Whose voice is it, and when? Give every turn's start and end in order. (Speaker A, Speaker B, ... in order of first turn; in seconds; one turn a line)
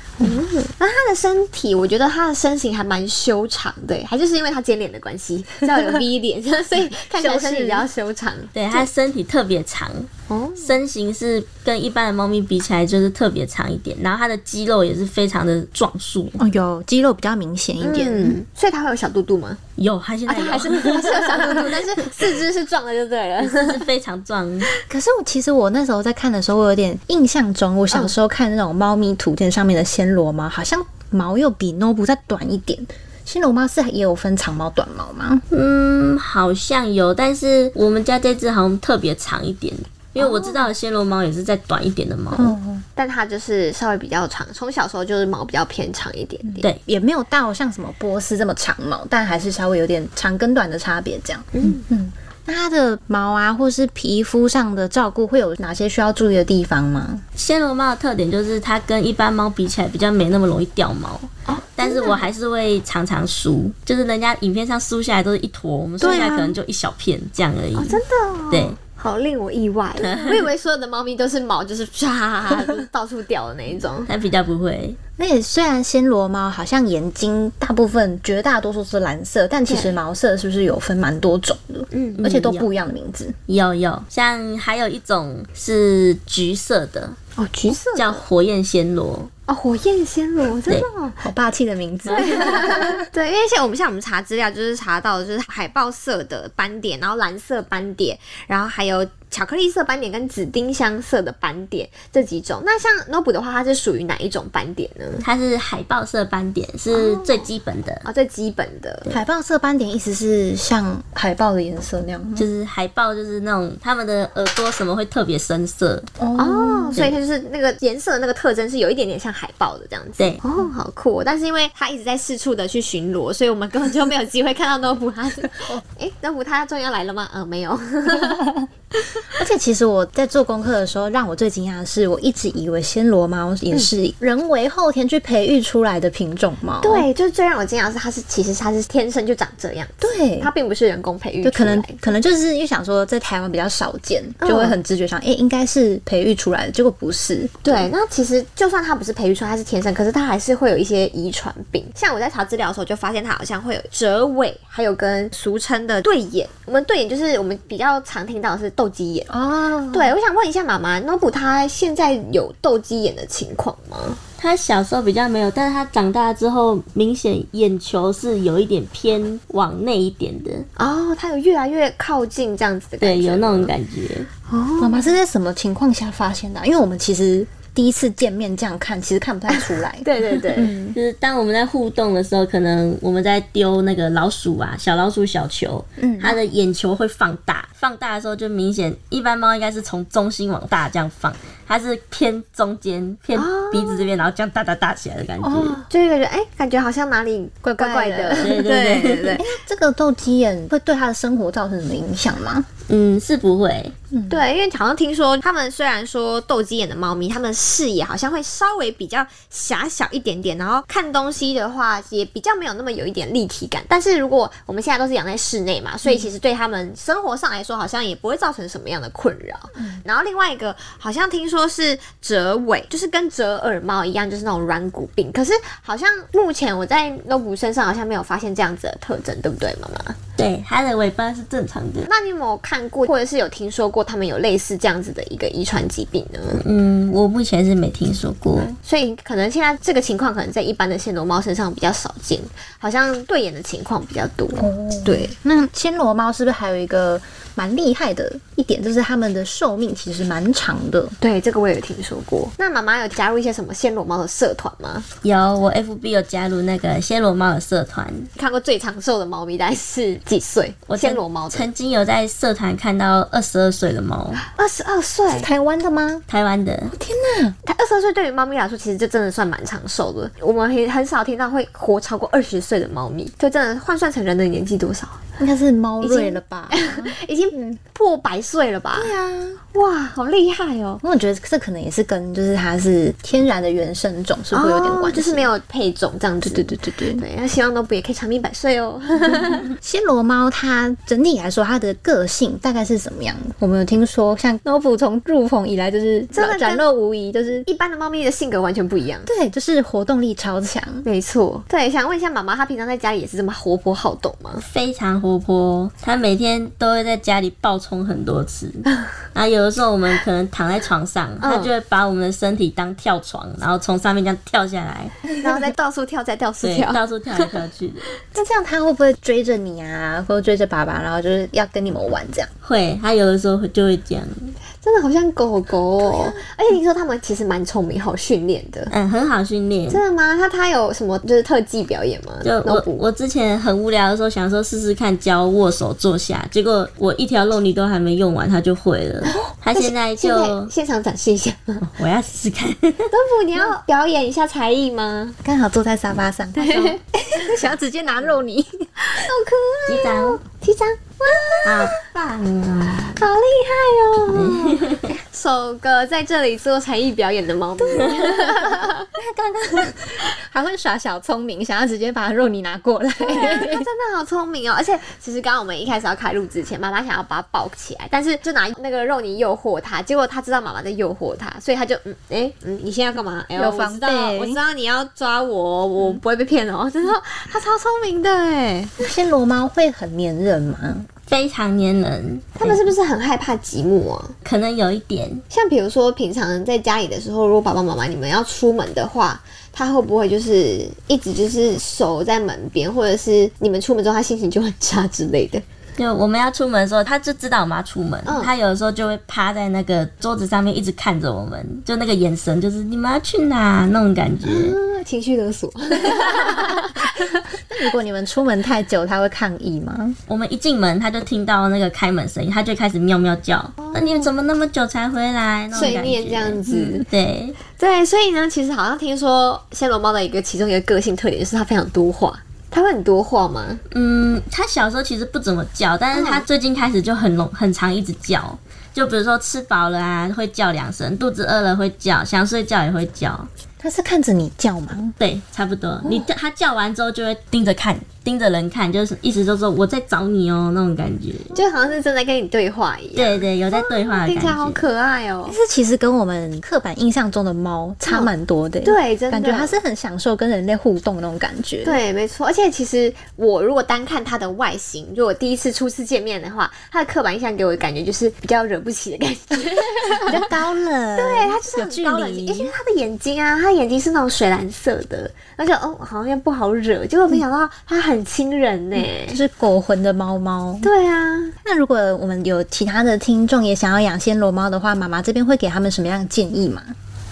Speaker A: 0.2-8.9
Speaker B: 7.1-7.9
Speaker C: 8.5-16.4
Speaker A: 10.3-10.8
Speaker B: 16.4-18.4
Speaker A: 17.8-19.6
Speaker C: 19.8-21.7
Speaker A: 20.3-23.8
Speaker C: 23.4-24.7
Speaker B: 24.9-35.4
Speaker C: 35.5-42.6
Speaker B: 40.2-40.6
Speaker B: 42.3-42.9
Speaker A: 43.0-46.7
Speaker B: 46.5-57.2
Speaker A: 51.5-51.8
Speaker C: 57.4-68.0
Speaker A: 61.5-62.2
Speaker A: 66.0-66.4
Speaker B: 66.0-66.6
Speaker A: 67.8-74.1
Speaker C: 68.5-68.8
Speaker C: 70.0-70.4
Speaker C: 74.1-75.0
Speaker B: 75.2-83.4
Speaker A: 79.7-80.0
Speaker A: 81.9-82.2
Speaker C: 82.2-82.7
Speaker C: 83.5-87.2
Speaker A: 87.4-88.2
Speaker C: 87.7-89.3
Speaker A: 89.5-91.3
Speaker B: 91.2-93.0
Speaker C: 92.1-92.3
Speaker A: 92.1-105.2
Speaker C: 105.2-108.0
Speaker A: 106.9-107.5
Speaker A: 108.0-109.1
Speaker B: 109.1-112.5
Speaker C: 112.4-116.1
Speaker B: 116.2-117.0
Speaker A: 116.4-128.5
Speaker B: 128.2-128.6
Speaker B: 129.3-137.1
Speaker A: 136.8-142.0
Speaker B: 140.0-140.5
Speaker B: 141.4-147.9
Speaker A: 144.4-144.8
Speaker A: 147.6-159.3
Speaker B: 159.3-160.2
Speaker A: 159.9-164.2
Speaker C: 164.4-170.7
Speaker A: 170.8-173.7
Speaker C: 173.0-174.3
Speaker A: 174.5-175.1
Speaker B: 174.8-181.0
Speaker A: 179.5-180.8
Speaker C: 180.9-195.8
Speaker B: 186.0-186.4
Speaker A: 193.3-194.1
Speaker B: 195.4-195.8
Speaker A: 195.9-199.4
Speaker B: 197.6-198.6
Speaker C: 198.4-199.4
Speaker B: 199.4-202.7
Speaker C: 202.9-203.9
Speaker B: 204.1-204.4
Speaker A: 204.3-230.2
Speaker B: 219.8-220.0
Speaker C: 230.4-232.1
Speaker A: 232.1-236.6
Speaker C: 236.5-238.8
Speaker A: 238.8-245.3
Speaker B: 244.6-251.2
Speaker A: 251.2-255.1
Speaker C: 255.2-258.3
Speaker A: 258.4-261.7
Speaker C: 260.9-264.4
Speaker A: 264.4-265.5
Speaker B: 265.3-266.2
Speaker C: 266.3-266.9
Speaker B: 266.9-267.6
Speaker A: 267.6-275.2
Speaker B: 275.4-277.8
Speaker A: 276.0-279.1
Speaker B: 278.9-279.6
Speaker A: 279.7-281.0
Speaker B: 281.0-285.5
Speaker A: 284.5-289.7
Speaker B: 286.4-287.2
Speaker B: 289.7-297.7
Speaker A: 296.3-296.8
Speaker A: 297.6-299.3
Speaker B: 299.3-301.1
Speaker A: 301.0-304.6
Speaker C: 304.6-315.2
Speaker A: 311.4-311.7
Speaker A: 315.4-317.0
Speaker C: 316.6-318.1
Speaker B: 318.3-322.5
Speaker C: 322.6-324.5
Speaker A: 324.8-328.9
Speaker B: 326.0-326.4
Speaker C: 328.9-330.0
Speaker A: 329.9-333.1
Speaker C: 332.4-340.7
Speaker A: 339.8-341.9
Speaker C: 341.8-343.1
Speaker A: 343.1-345.4
Speaker B: 345.4-349.3
Speaker A: 346.6-347.7
Speaker A: 349.1-351.9
Speaker C: 349.9-350.4
Speaker C: 351.6-353.2
Speaker A: 353.1-359.1
Speaker C: 354.3-355.1
Speaker B: 357.8-363.9
Speaker A: 363.2-379.0
Speaker B: 373.6-374.6
Speaker B: 379.0-381.1
Speaker C: 381.3-382.9
Speaker A: 382.6-384.4
Speaker C: 384.4-385.4
Speaker A: 385.5-395.6
Speaker C: 396.0-404.8
Speaker A: 398.2-398.5
Speaker A: 404.4-407.3
Speaker B: 406.3-406.7
Speaker B: 407.5-410.2
Speaker C: 410.3-417.6
Speaker A: 413.8-414.3
Speaker A: 415.7-417.1
Speaker A: 417.7-423.8
Speaker C: 423.9-433.5
Speaker A: 426.1-426.4
Speaker B: 433.8-435.2
Speaker C: 435.2-441.5
Speaker A: 441.5-445.6
Speaker C: 443.2-444.9
Speaker B: 445.5-452.0
Speaker A: 448.1-448.3
Speaker A: 448.8-449.8
Speaker A: 451.8-460.6
Speaker B: 460.3-462.7
Speaker A: 461.1-469.4
Speaker B: 469.0-470.9
Speaker A: 470.8-471.5
Speaker B: 471.6-476.9